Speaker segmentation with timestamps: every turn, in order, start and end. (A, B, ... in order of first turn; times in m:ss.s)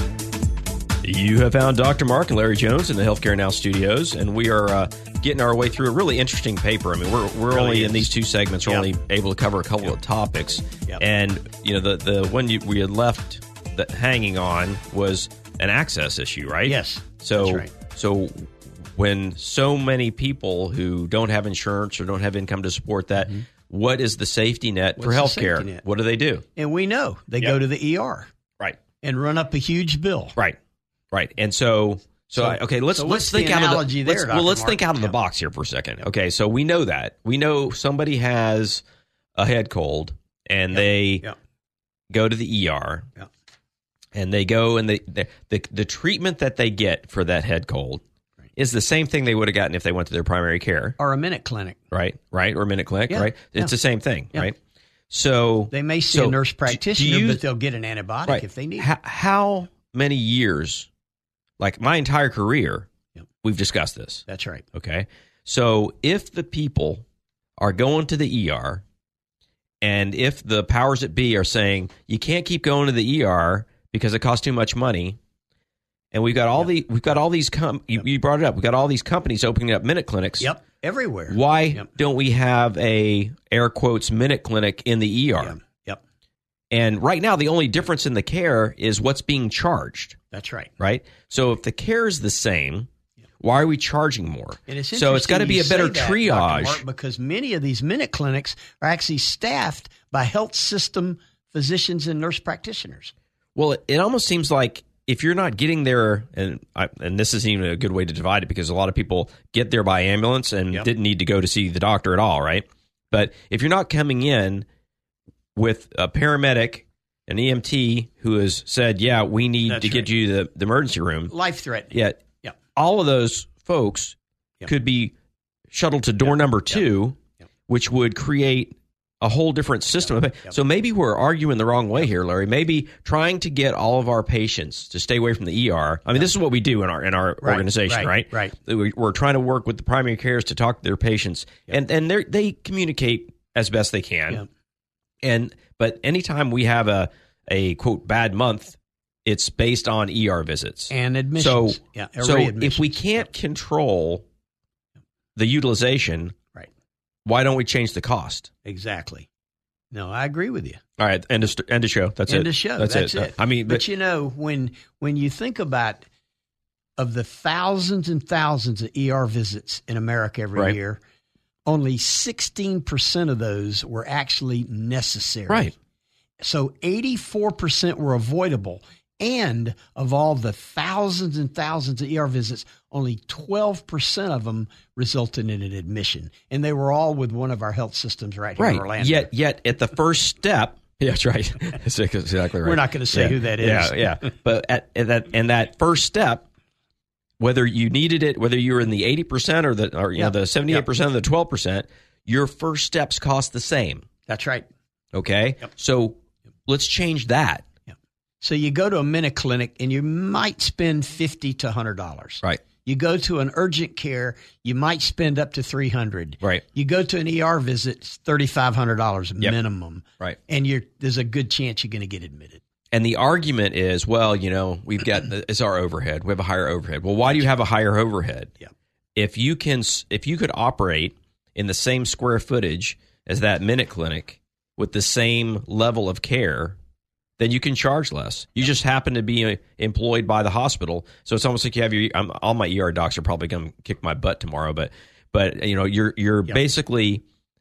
0:01.0-0:26.4 A
0:07.5-0:08.1 B
0:16.6-0:17.7 B
0:23.2-0:23.4 B
0:25.0-0:25.8 B
0:26.6-0:28.3 B
0:29.0-0:30.4 B
0:31.1-0:38.8 A
0:32.4-0:35.1 B
0:39.3-0:41.3 A
0:40.7-0:41.3 B
0:42.1-0:43.1 A
0:44.1-0:48.0 A
0:48.6-0:51.0 A
0:51.0-0:51.8 B
0:51.9-0:54.6 A
0:53.1-0:53.7 B
0:55.1-0:57.4 A
0:55.7-0:58.9 B
0:58.2-1:00.9 A
1:01.6-1:02.9 A
1:03.4-1:07.0 A
1:04.3-1:04.6 B
1:07.6-1:08.8 A
1:09.8-1:15.2 A
1:16.1-1:20.5 A
1:20.4-1:21.9 B
1:21.3-1:25.6 A
1:25.4-1:26.0 B
1:26.7-1:30.2 A
1:30.3-1:30.7 B
1:30.8-1:32.9 A
1:33.4-1:36.8 A
1:34.7-1:43.1 B
1:43.6-1:54.7 A
1:55.5-2:01.3 A
1:59.6-2:00.1 B
2:01.3-2:02.6 B
2:01.9-2:02.2 A
2:02.7-2:05.1 A
2:05.7-2:24.4 A
2:17.4-2:18.5 B
2:25.2-2:34.2 A
2:30.9-2:33.0 B
2:35.4-2:36.4 A
2:37.2-2:38.5 A
2:38.6-2:39.3 B
2:39.9-2:40.8 B
2:41.0-2:43.8 A
2:42.3-2:46.0 B
2:47.0-2:51.0 B
2:51.6-2:55.7 B
2:56.4-3:09.3 B
3:08.6-3:16.4 A
3:12.6-3:14.3 B
3:17.4-3:24.0 A
3:20.2-3:20.8 B
3:24.3-3:24.6 B
3:25.1-3:27.6 A
3:28.4-3:42.6 B
3:42.9-3:48.5 A
3:49.1-3:56.8 A
3:57.4-4:07.2 A